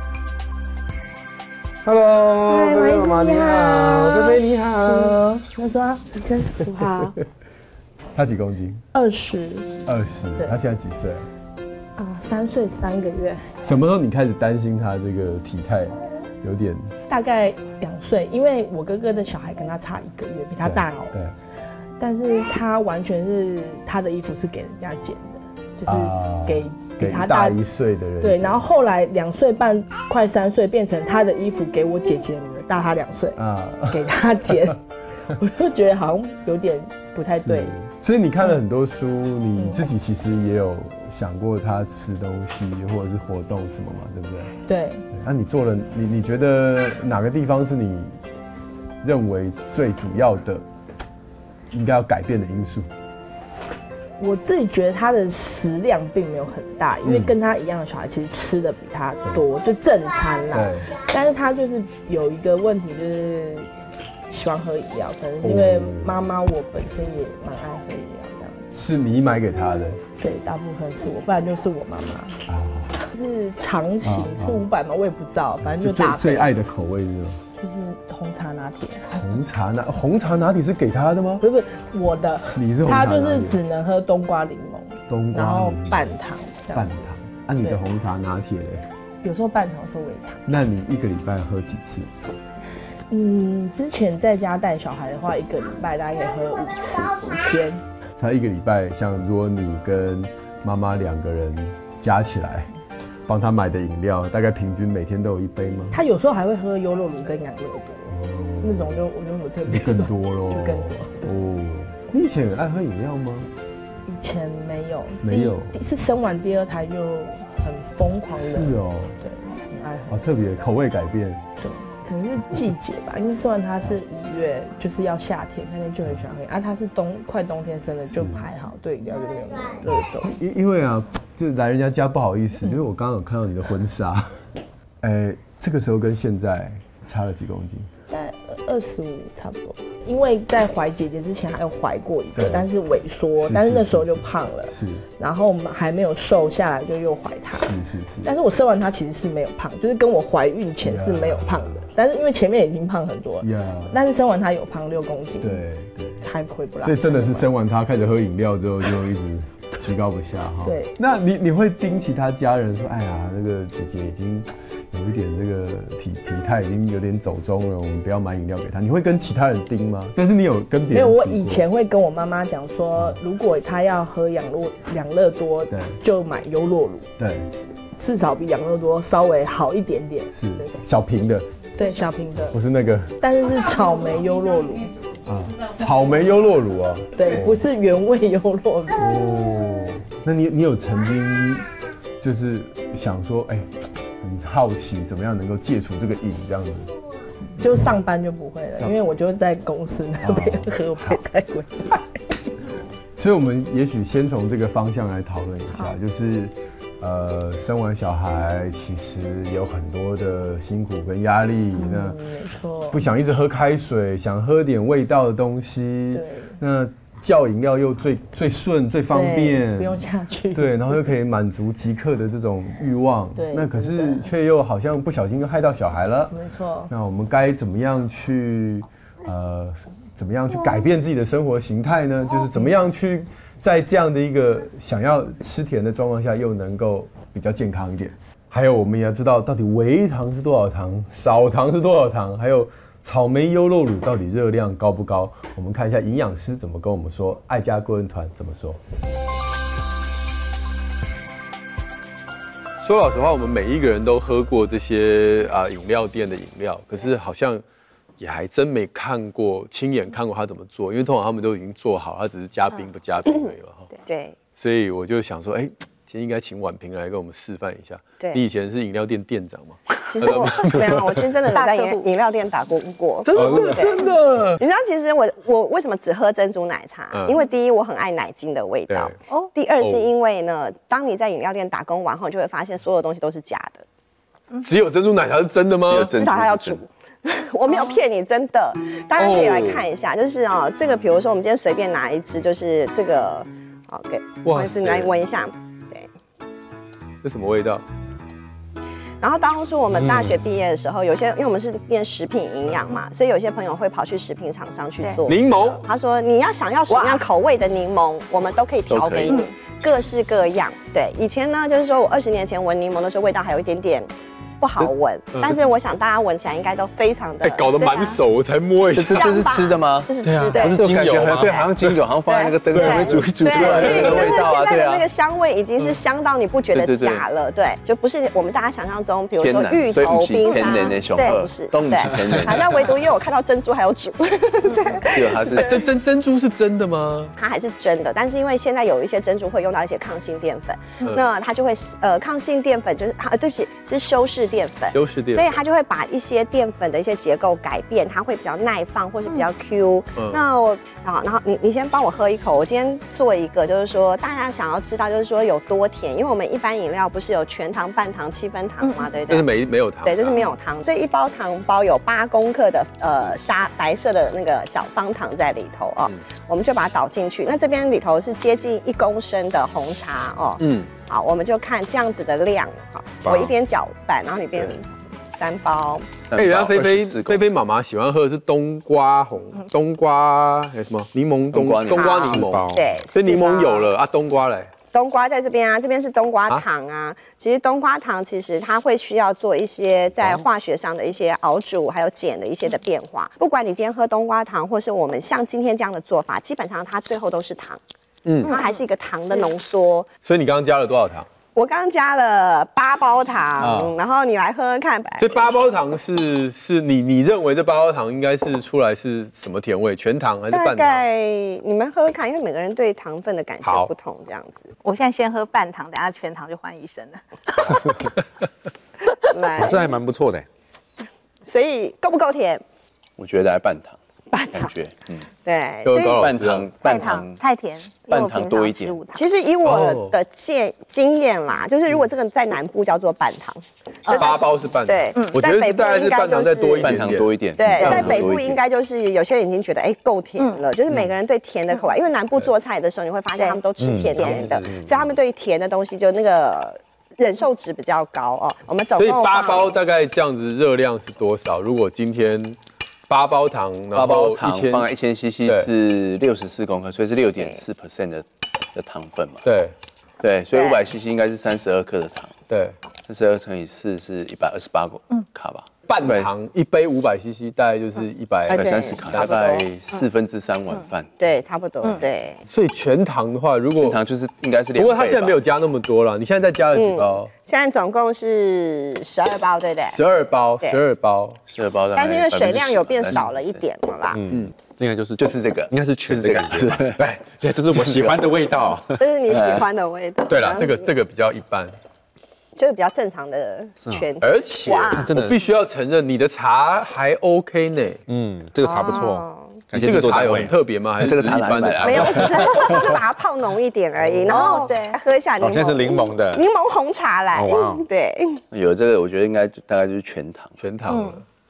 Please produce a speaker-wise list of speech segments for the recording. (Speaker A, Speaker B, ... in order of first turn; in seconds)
Speaker A: 1.8-5.2, 8.1-8.8, 9.8-11.3, 13.6-16.9, 20.6-21.3, 25.9-28.6, 33.4-34.7, 37.3-44.6, 45.1-48.2, 49.0-50.6, 51.7-52.9, 57.0-57.3, 60.5-60.9, 65.4-66.2, 68.7-70.0, 72.5-73.0, 74.0-74.6, 75.6-77.4, 79.1-81.4, 82.5-83.6, 85.1-86.2, 86.7-88.8, 90.5-92.1, 98.2-102.7, 103.3-106.0, 108.1-109.0, 109.7-113.5, 115.2-115.7, 118.3-119.2, 120.1-121.4, 128.1-128.4, 130.2-134.5, 135.0-137.9, 142.3-142.7, 143.4-145.1, 147.6-148.3, 150.8-151.8, 153.4-153.9, 155.4-156.2, 156.8-171.6, 175.7-176.0, 177.2-177.5, 180.3-181.5, 182.4-183.2, 185.2-187.6, 189.0-196.9, 197.6-197.9, 200.2-201.2, 203.2-212.2, 212.9-220.0, 220.5-226.3, 226.9-248.8, 252.8-257.6, 258.2-263.9, 264.6-271.0, 273.2-274.6, 277.1-277.4, 278.9-279.1, 279.8-280.1, 284.6-286.1, 289.2-289.8, 294.4-295.1, 297.2-297.8, 305.2-305.8, 314.8-315.6, 317.4-319.5, 320.8-321.6, 322.7-324.4, 335.5-337.3, 344.9-345.6, 350.1-350.4, 359.3-360.4, 370.6-370.9, 376.3-384.7, 398.2-398.5, 400.2-401.3, 403.6-403.9, 405.2-411.0, 413.6-413.9, 425.8-426.7, 429.6-430.2, 434.1-438.2, 444.2-444.7, 448.9-452.6, 453.1-454.9, 459.4-459.7, 462.5-462.8, 465.9-469.6, 472.5-474.0, 474.8-477.3, 479.9-481.4, 490.3-491.7, 494.2-498.0, 499.7-502.9, 504.0-504.6, 510.6-511.2
Speaker B: 2.5-7.2, 8.9-9.8, 11.9-13.5, 17.1-21.2, 22.0-27.6, 28.2-33.4, 33.9-37.7, 39.5-39.8, 44.7-45.0, 54.2-63.7, 64.3-68.7, 70.2-72.4, 73.0-76.5, 77.6-79.2, 81.4-86.9, 89.2-90.4, 93.1-97.8, 105.9-111.3, 114.0-120.2, 121.6-130.3, 138.1-155.6, 156.2-157.5, 160.6-160.9, 170.9-177.1, 177.9-180.7, 181.8-182.6, 183.2-184.9, 187.2-189.1, 197.6-202.0, 211.8-213.0, 216.1-216.6, 219.1-221.0, 223.3-224.3, 226.3-226.9, 232.5-232.8
Speaker C: 264.1-264.3, 270.1-274.0, 274.6-283.8, 286.1-296.1, 299.2-314.1, 314.6-317.7, 319.1-320.8, 322.7-335.8, 337.4-359.5, 360.0-376.1, 382.0-383.9, 384.9-397.8, 398.4-400.1, 401.5-405.5, 410.5-414.7, 419.3-419.8, 421.4-422.6, 424.3-424.7, 425.4-426.3, 426.9-427.1, 429.1-449.7, 457.4-457.6, 460.5-460.8, 468.5-469.5, 471.2-472.4, 476.7-480.0, 481.9-484.2, 488.9-490.9, 492.6-495.1, 498.6-499.6, 501.8-508.4
Speaker D: 271.5-272.1, 287.7-288.0, 306.9-307.2, 317.8-318.2, 330.5-331.3, 334.7-335.0, 358.8-359.1, 398.5-398.7, 414.8-417.9, 426.8-429.2, 434.1-434.3, 437.8-438.2, 504.3-505.0, 510.9-511.2
Speaker E: 273.3-273.9, 299.9-300.4, 320.2-321.7, 373.2-373.5, 382.1-382.8, 419.6-420.4, 443.8-445.0, 484.1-489.0, 494.9-495.4, 498.1-500.5, 505.4-506.4, 507.3-507.9
Speaker F: 285.9-286.8, 308.9-309.4, 318.9-325.1, 326.7-327.2, 329.4-332.9, 335.1-335.8, 376.3-377.5, 381.5-382.4, 423.2-423.9, 424.5-425.2, 426.1-427.4, 428.1-429.0, 436.8-438.6, 453.9-459.4, 460.2-462.4, 463.1-466.3, 468.5-471.1, 473.8-475.4, 481.5-483.6, 485.2-487.0, 487.7-488.2, 489.3-489.6, 501.0-502.9, 508.5-510.6